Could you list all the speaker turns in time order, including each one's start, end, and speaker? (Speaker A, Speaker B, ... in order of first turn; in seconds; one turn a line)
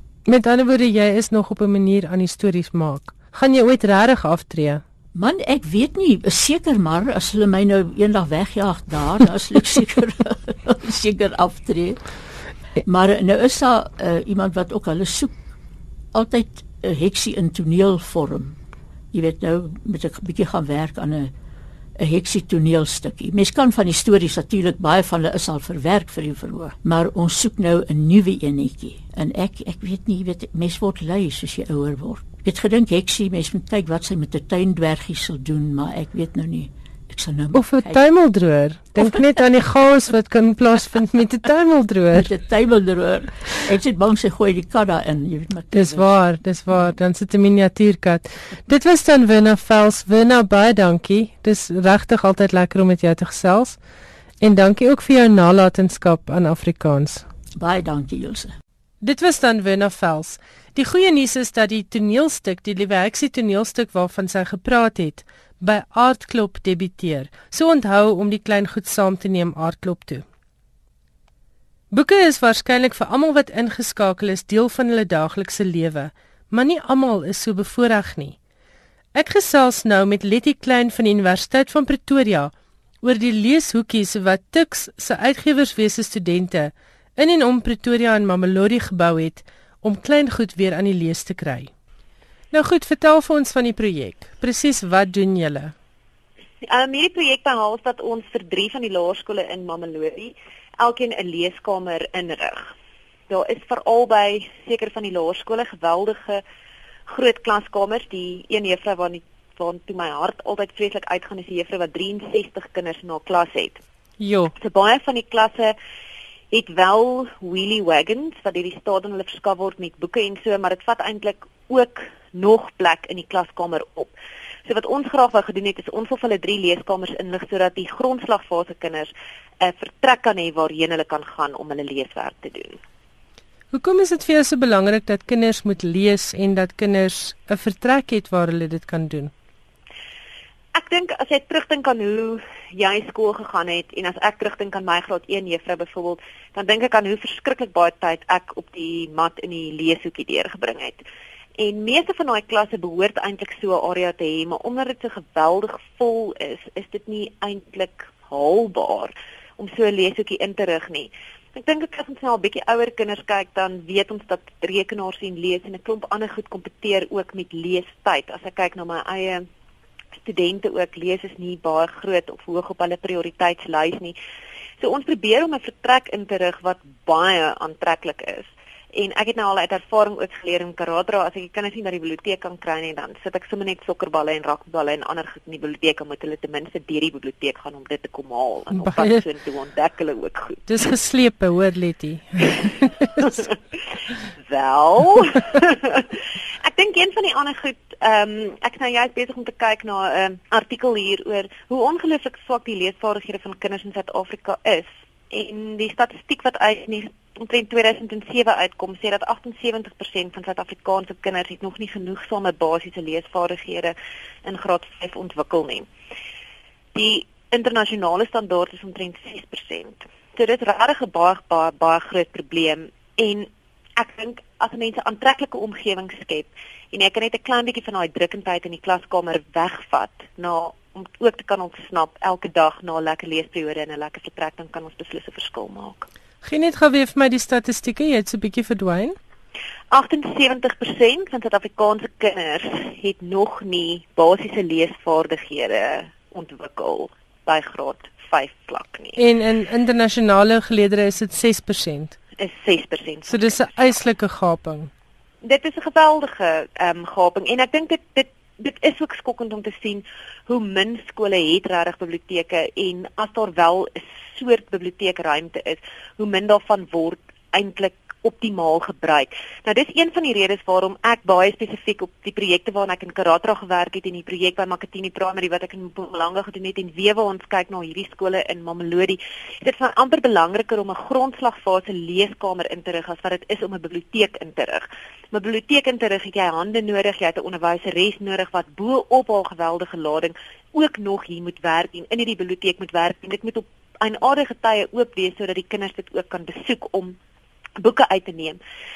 Speaker A: 0.3-4.8
Speaker B: 5.1-12.0
Speaker B: 12.8-15.4
Speaker B: 16.1-18.6
Speaker B: 19.1-21.3
Speaker B: 22.0-38.0
Speaker A: 37.5-42.3
Speaker B: 42.1-46.0
Speaker A: 45.7-53.8
Speaker A: 54.4-57.2
Speaker B: 57.5-58.5
Speaker A: 59.0-70.2
Speaker A: 71.9-78.3
Speaker A: 79.1-82.5
Speaker A: 83.0-91.7
Speaker A: 92.5-95.7
Speaker C: 96.6-102.7
Speaker C: 103.3-106.4
Speaker C: 107.1-113.8
Speaker A: 114.2-114.5
Speaker C: 114.6-115.7
Speaker C: 116.5-124.1
Speaker C: 124.7-132.8
Speaker A: 133.7-139.3
Speaker C: 140.7-151.0
Speaker C: 151.6-169.4
Speaker C: 170.2-174.2
Speaker C: 174.8-190.8
Speaker A: 188.7-189.2
Speaker A: 190.7-193.2
Speaker C: 193.2-193.6
Speaker C: 194.4-215.9
Speaker C: 216.9-236.1
Speaker A: 236.4-239.1
Speaker C: 239.9-249.2
Speaker A: 249.2-252.2
Speaker C: 252.4-253.7
Speaker A: 253.3-254.9
Speaker C: 255.4-297.2
Speaker C: 297.8-298.6